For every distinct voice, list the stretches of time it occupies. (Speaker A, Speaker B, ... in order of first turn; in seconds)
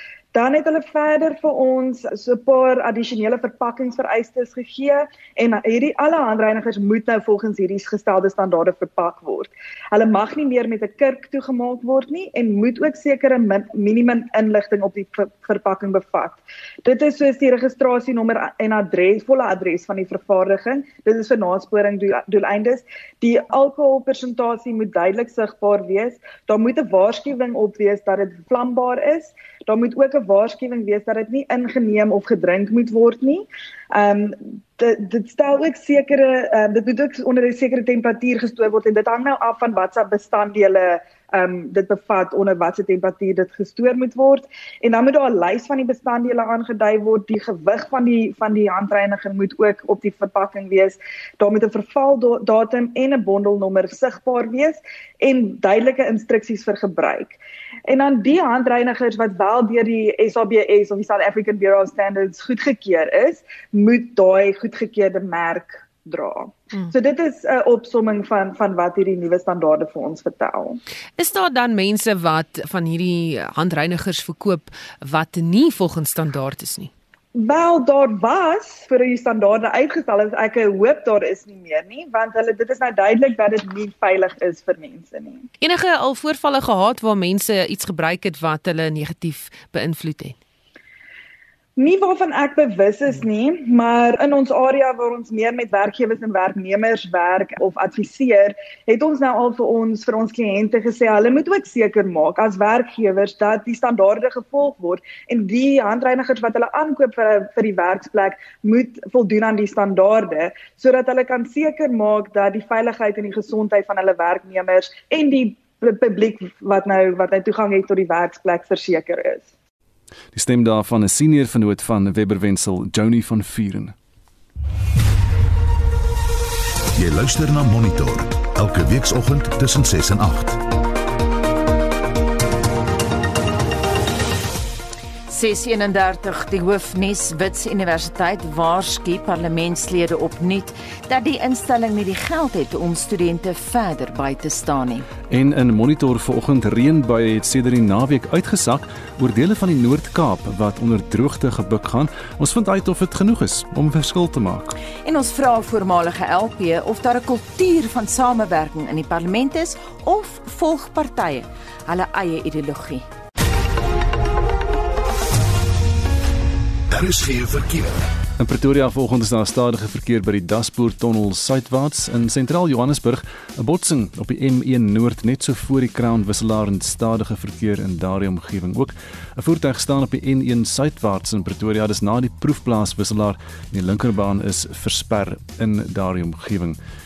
Speaker A: 0.3-70.8, 77.3-85.5, 91.8-119.5
Speaker B: 71.2-76.9, 85.6-90.4
Speaker C: 120.3-123.9, 145.3-154.8, 168.4-186.8
Speaker D: 127.0-130.6, 166.9-168.1
Speaker E: 135.3-145.1, 155.0-163.1